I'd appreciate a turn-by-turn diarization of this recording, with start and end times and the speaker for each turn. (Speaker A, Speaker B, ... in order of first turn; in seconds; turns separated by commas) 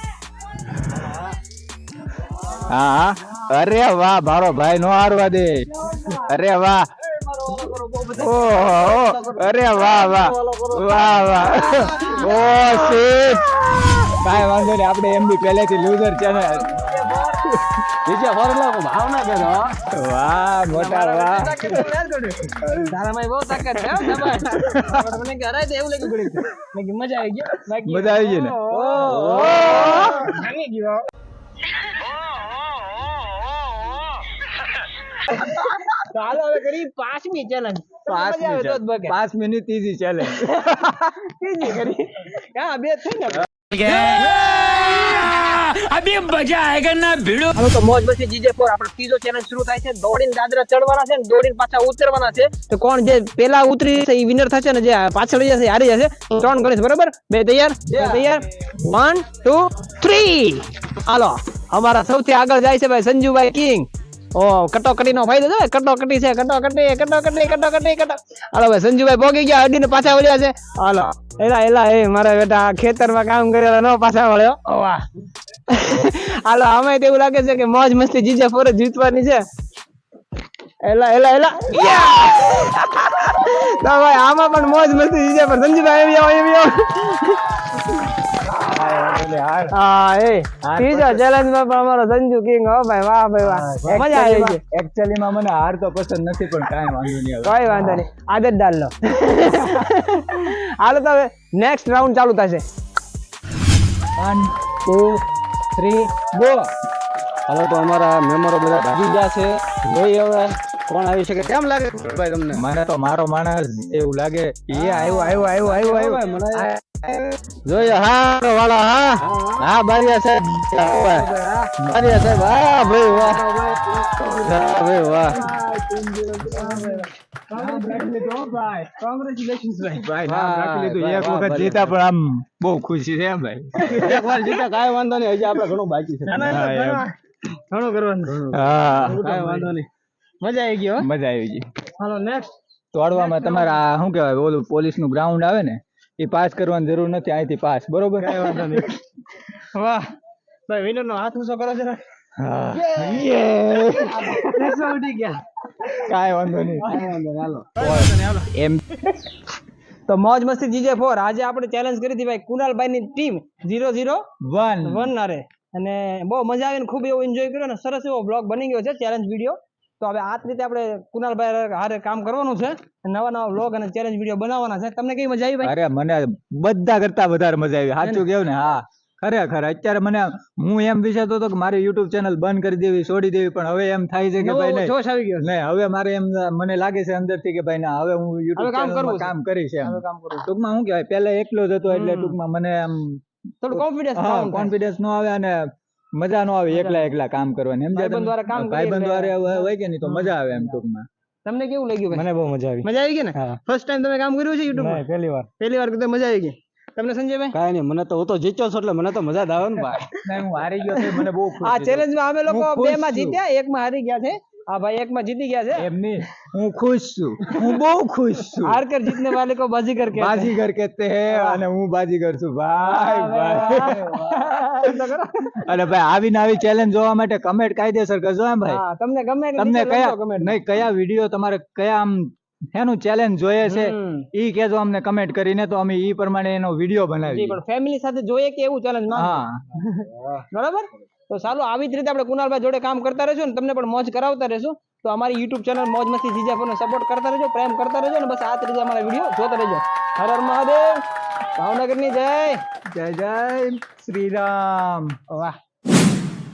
Speaker A: 2.7-6.8, Speaker B: 7.5-11.9, Speaker A: 8.2-13.5, Speaker C: 11.8-12.3, Speaker B: 12.4-13.0, Speaker A: 14.2-16.7, Speaker C: 16.4-17.4, Speaker A: 17.5-17.8, Speaker B: 18.1-19.8, Speaker A: 19.9-21.9, Speaker C: 20.7-31.0, Speaker A: 22.6-22.8, Speaker A: 24.5-25.1, Speaker A: 27.9-30.3, Speaker B: 28.9-29.9, Speaker C: 35.3-39.1, Speaker A: 38.1-41.2, Speaker C: 41.2-43.5, Speaker D: 43.7-47.5, Speaker C: 47.5-75.0, Speaker A: 57.9-58.3, Speaker C: 75.7-79.4, Speaker C: 80.8-87.4, Speaker A: 88.5-89.7, Speaker C: 89.7-94.6, Speaker A: 90.6-91.2, Speaker A: 93.4-98.0, Speaker C: 97.4-102.6, Speaker A: 104.2-105.2, Speaker A: 105.8-106.7, Speaker B: 107.5-112.6, Speaker A: 112.5-115.8, Speaker B: 114.8-116.7, Speaker C: 115.0-116.1, Speaker A: 116.9-117.2, Speaker B: 117.7-121.3, Speaker C: 121.0-121.7, Speaker A: 121.8-122.1, Speaker B: 121.9-123.5, Speaker C: 123.2-124.4, Speaker B: 124.3-125.4, Speaker A: 125.3-127.0, Speaker C: 126.5-128.2, Speaker A: 127.5-128.9, Speaker C: 128.8-130.1, Speaker A: 129.9-134.3, Speaker B: 130.3-131.9, Speaker B: 133.8-136.5, Speaker C: 136.3-137.2, Speaker A: 136.4-137.0, Speaker C: 137.7-138.4, Speaker B: 138.3-139.9, Speaker A: 138.5-139.2, Speaker C: 139.0-139.7, Speaker C: 140.4-141.1, Speaker A: 141.0-141.7, Speaker C: 142.0-142.5, Speaker A: 142.9-148.9, Speaker C: 143.1-143.8, Speaker C: 148.2-148.9, Speaker C: 149.5-150.1, Speaker C: 150.7-152.0, Speaker A: 152.4-154.7, Speaker C: 152.9-153.2, Speaker C: 154.1-155.4, Speaker A: 155.9-157.1, Speaker B: 156.9-157.8, Speaker A: 157.8-159.1, Speaker C: 157.8-158.5, Speaker C: 160.1-164.3, Speaker A: 164.4-165.1, Speaker C: 164.8-175.8, Speaker A: 175.6-201.1, Speaker C: 178.0-178.3, Speaker C: 184.4-185.5, Speaker C: 188.6-190.5, Speaker C: 191.9-192.4, Speaker C: 193.6-194.7, Speaker C: 196.7-197.1, Speaker C: 197.9-200.8, Speaker C: 201.4-202.3, Speaker B: 202.1-203.6, Speaker C: 202.8-207.6, Speaker B: 204.8-205.4, Speaker B: 207.5-210.2, Speaker A: 210.2-213.4, Speaker C: 211.0-215.9, Speaker A: 215.8-219.4, Speaker C: 218.6-220.6, Speaker A: 220.1-225.0, Speaker C: 221.3-221.6, Speaker C: 222.8-225.7, Speaker A: 225.6-228.8, Speaker C: 228.7-230.6, Speaker A: 229.6-237.6, Speaker C: 233.7-234.3, Speaker C: 237.2-251.0, Speaker A: 239.1-239.6, Speaker C: 251.6-252.6, Speaker A: 252.9-255.2, Speaker C: 255.3-255.6